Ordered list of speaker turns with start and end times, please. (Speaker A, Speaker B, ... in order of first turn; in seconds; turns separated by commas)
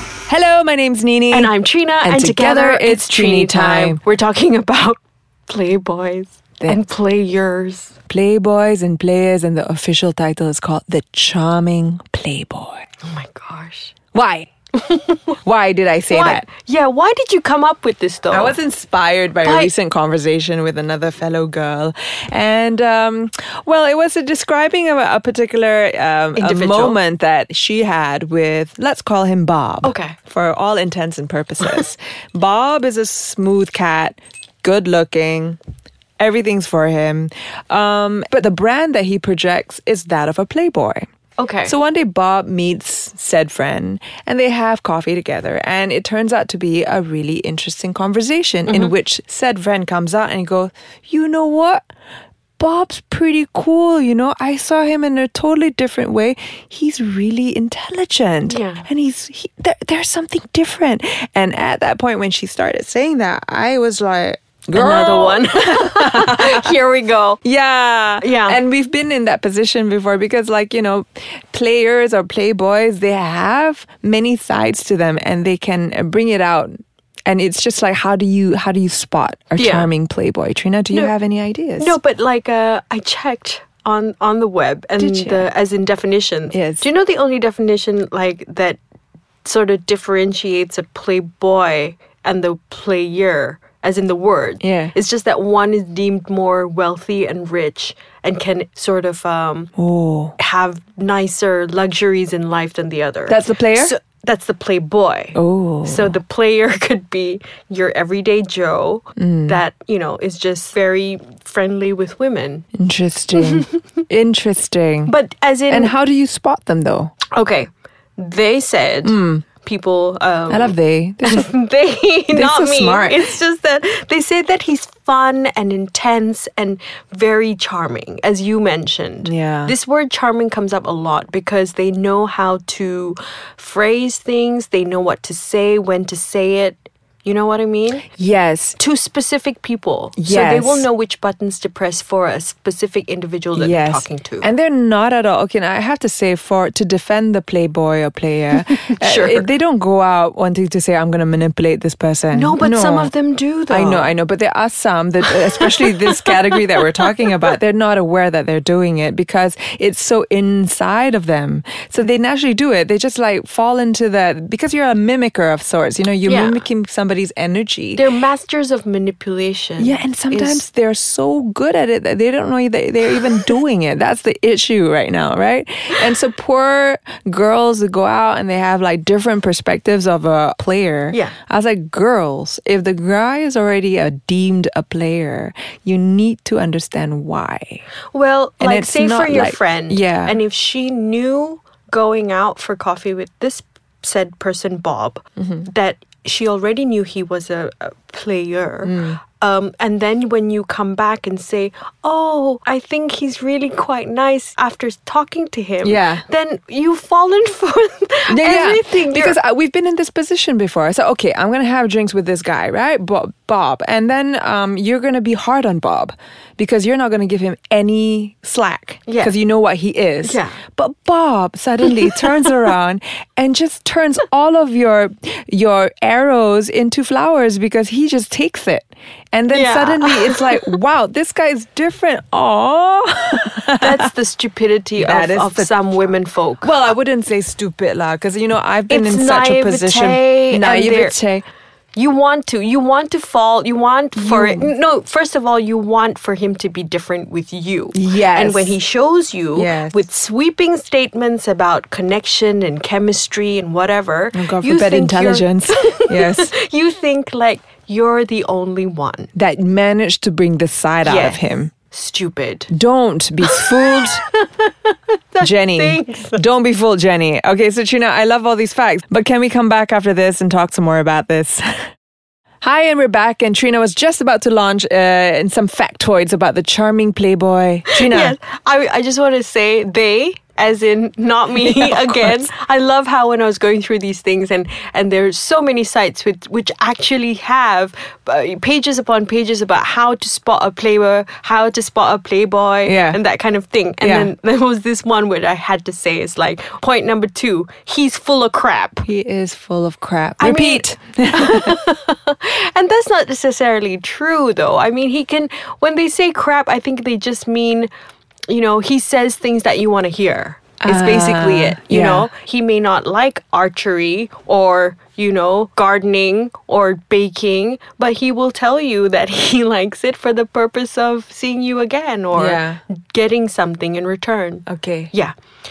Speaker A: 0.3-4.0, Speaker B: 1.3-7.9, Speaker A: 8.1-12.8, Speaker B: 13.0-13.9, Speaker A: 14.1-14.5, Speaker B: 14.8-15.3, Speaker A: 15.4-16.4, Speaker B: 16.1-18.6, Speaker A: 18.3-35.6, Speaker B: 19.4-19.7, Speaker B: 26.4-27.0, Speaker B: 29.8-30.2, Speaker A: 36.2-41.1, Speaker B: 41.4-41.8, Speaker A: 41.6-51.9, Speaker A: 52.6-66.7, Speaker B: 58.5-58.9, Speaker B: 64.7-67.4, Speaker A: 67.4-82.0, Speaker B: 68.2-68.6, Speaker B: 79.6-79.9, Speaker B: 81.8-88.8, Speaker A: 85.0-85.5, Speaker A: 86.5-86.9, Speaker B: 89.4-99.7, Speaker A: 94.6-95.0, Speaker A: 99.8-100.4, Speaker B: 100.4-112.7, Speaker A: 103.3-103.9, Speaker A: 105.3-106.2, Speaker A: 109.2-109.6, Speaker A: 112.8-115.2, Speaker B: 113.4-113.8, Speaker B: 115.1-116.0, Speaker A: 115.7-117.2, Speaker B: 117.3-138.1, Speaker A: 119.0-119.5, Speaker A: 120.5-121.5, Speaker A: 122.3-123.4, Speaker A: 129.2-129.7, Speaker A: 138.2-138.8, Speaker B: 138.8-144.5, Speaker A: 140.2-140.9, Speaker A: 143.6-153.1, Speaker B: 148.7-149.5, Speaker B: 152.3-154.1, Speaker A: 153.7-168.1, Speaker B: 155.3-157.2, Speaker B: 166.2-166.6, Speaker B: 168.0-170.6, Speaker A: 169.8-187.8, Speaker B: 188.1-209.4, Speaker A: 188.6-190.4, Speaker A: 195.4-195.7, Speaker A: 198.8-199.2, Speaker A: 205.8-206.2, Speaker A: 208.3-234.1, Speaker B: 219.1-219.3, Speaker B: 220.2-220.6, Speaker B: 229.5-230.8, Speaker B: 233.8-236.7, Speaker A: 235.0-235.8, Speaker A: 236.6-241.4, Speaker B: 238.9-241.2, Speaker B: 241.9-259.3, Speaker A: 244.2-244.7, Speaker A: 247.9-248.8, Speaker A: 249.6-250.1, Speaker A: 254.3-256.6, Speaker A: 259.4-261.7, Speaker B: 261.0-262.7, Speaker A: 262.7-264.2, Speaker B: 263.5-266.4, Speaker A: 265.4-271.8, Speaker A: 272.6-278.4, Speaker B: 277.9-299.1, Speaker A: 281.6-282.4, Speaker A: 292.9-293.2, Speaker A: 294.0-294.3, Speaker A: 299.0-301.8, Speaker B: 300.4-307.9, Speaker B: 308.5-325.4, Speaker A: 310.8-312.3, Speaker A: 322.3-322.8, Speaker A: 324.7-325.1